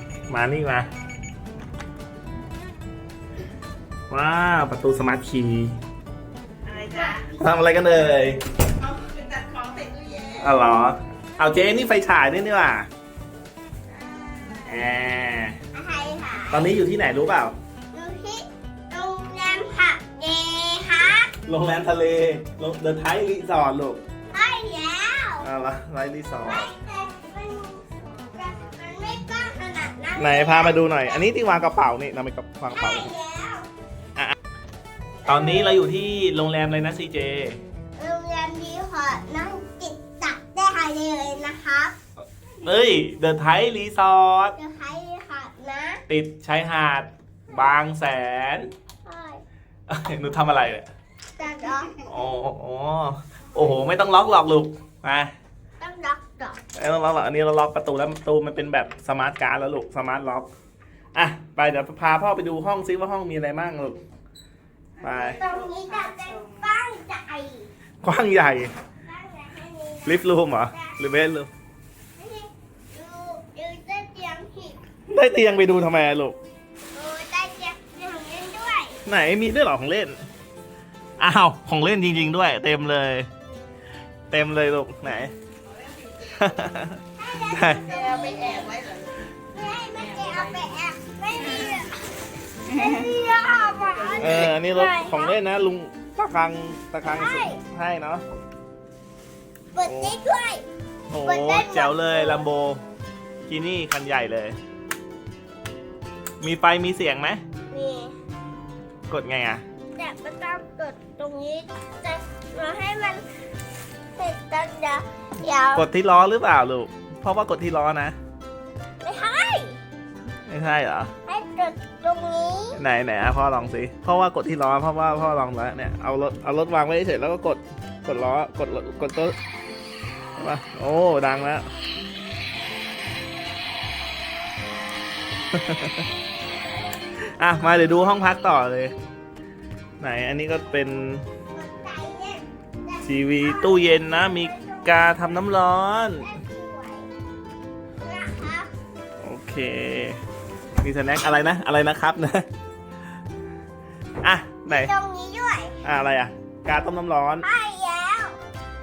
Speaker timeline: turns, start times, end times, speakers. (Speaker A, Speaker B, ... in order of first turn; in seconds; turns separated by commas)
Speaker A: 0.3-0.9, Speaker A: 4.1-5.8, Speaker B: 6.6-7.3, Speaker C: 6.9-7.4, Speaker A: 7.4-8.4, Speaker B: 8.8-10.6, Speaker A: 10.4-12.9, Speaker B: 13.9-14.9, Speaker A: 14.7-15.6, Speaker C: 15.7-16.7, Speaker A: 16.5-17.5, Speaker C: 17.9-21.3, Speaker A: 21.4-24.0, Speaker C: 24.3-25.5, Speaker A: 25.4-26.7, Speaker C: 26.4-31.3, Speaker A: 30.2-33.1, Speaker C: 32.7-33.7, Speaker C: 35.2-35.9, Speaker A: 35.3-37.6, Speaker C: 38.0-41.9, Speaker A: 42.6-44.5, Speaker C: 44.6-46.0, Speaker A: 46.1-48.7, Speaker C: 49.0-49.4, Speaker A: 49.9-50.9, Speaker C: 51.4-52.1, Speaker A: 52.1-55.3, Speaker C: 55.8-56.6, Speaker A: 56.8-60.5, Speaker A: 61.1-64.0, Speaker B: 65.0-66.7, Speaker A: 65.0-65.4, Speaker C: 65.2-67.7, Speaker A: 68.0-68.7, Speaker C: 69.0-71.0, Speaker A: 70.0-71.5, Speaker C: 72.2-74.8, Speaker A: 75.1-76.4, Speaker C: 76.9-79.0, Speaker A: 79.0-80.2, Speaker A: 81.2-83.3, Speaker A: 84.3-85.3, Speaker B: 85.7-86.6, Speaker A: 86.3-87.0, Speaker C: 87.2-88.8, Speaker A: 87.5-87.8, Speaker B: 87.7-89.2, Speaker C: 89.5-92.0, Speaker B: 90.0-90.6, Speaker B: 91.5-91.8, Speaker B: 92.6-93.1, Speaker C: 92.7-95.3, Speaker B: 94.0-94.5, Speaker A: 94.2-98.2, Speaker C: 97.0-97.6, Speaker C: 99.7-100.6, Speaker A: 99.8-100.2, Speaker A: 101.1-102.8, Speaker C: 101.2-102.4, Speaker A: 103.5-104.6, Speaker A: 106.4-107.4, Speaker C: 107.7-108.1, Speaker A: 109.1-109.6, Speaker C: 110.0-113.2, Speaker C: 114.2-115.9, Speaker A: 115.7-118.1, Speaker C: 119.0-119.8, Speaker A: 120.5-121.1, Speaker C: 121.3-122.8, Speaker A: 122.8-129.3, Speaker A: 130.4-131.7, Speaker A: 135.5-136.0, Speaker A: 137.4-138.9, Speaker A: 140.0-141.2, Speaker C: 141.5-147.1, Speaker A: 143.0-146.3, Speaker C: 148.0-148.7, Speaker A: 149.2-150.2, Speaker A: 150.8-152.4, Speaker A: 154.2-154.9, Speaker C: 154.7-155.8, Speaker A: 155.8-157.5, Speaker C: 157.4-158.4